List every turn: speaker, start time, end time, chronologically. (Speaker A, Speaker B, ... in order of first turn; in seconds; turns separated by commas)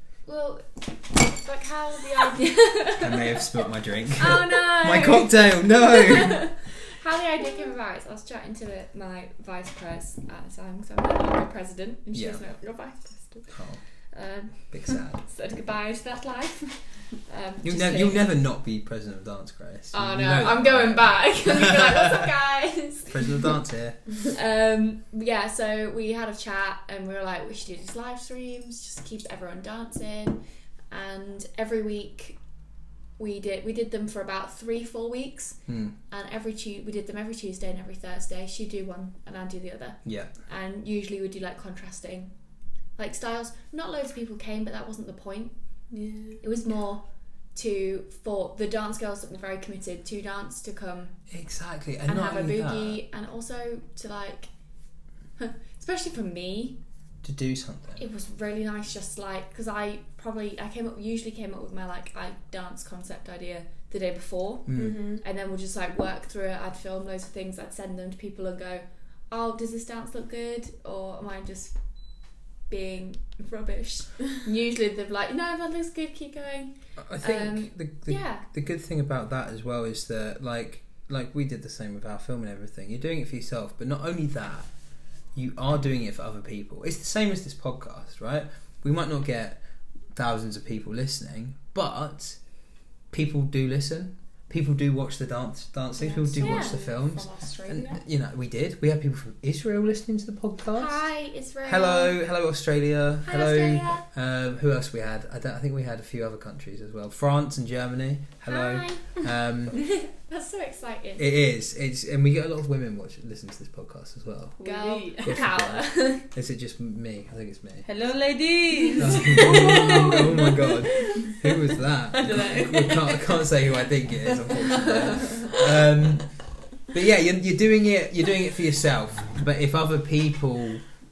Speaker A: 0.2-18.3, Speaker B: 3.0-6.5, Speaker B: 12.1-12.4, Speaker B: 13.5-13.8, Speaker B: 14.7-15.2, Speaker B: 17.6-22.3, Speaker A: 19.9-23.5, Speaker B: 23.1-24.0, Speaker A: 24.2-32.4, Speaker A: 33.2-42.3, Speaker B: 35.7-35.9, Speaker B: 40.0-40.3, Speaker A: 43.0-45.5, Speaker C: 45.9-46.4, Speaker A: 46.4-51.2, Speaker B: 51.3-53.0, Speaker A: 52.0-54.5, Speaker A: 55.4-56.8, Speaker B: 57.2-58.0, Speaker A: 58.0-71.8, Speaker B: 64.7-65.0, Speaker C: 64.8-65.2, Speaker A: 72.7-78.4, Speaker B: 77.0-84.7, Speaker B: 85.3-89.6, Speaker B: 90.1-92.4, Speaker B: 93.1-101.0, Speaker C: 96.0-98.0, Speaker A: 96.4-96.7, Speaker A: 100.7-102.1, Speaker B: 101.6-109.8, Speaker A: 103.2-104.0, Speaker A: 108.5-111.3, Speaker B: 111.2-114.6, Speaker C: 114.6-115.2, Speaker A: 114.6-116.2, Speaker B: 115.2-117.9, Speaker C: 117.8-123.3, Speaker A: 118.8-119.6, Speaker B: 119.0-130.8, Speaker C: 124.4-125.6, Speaker A: 125.0-125.4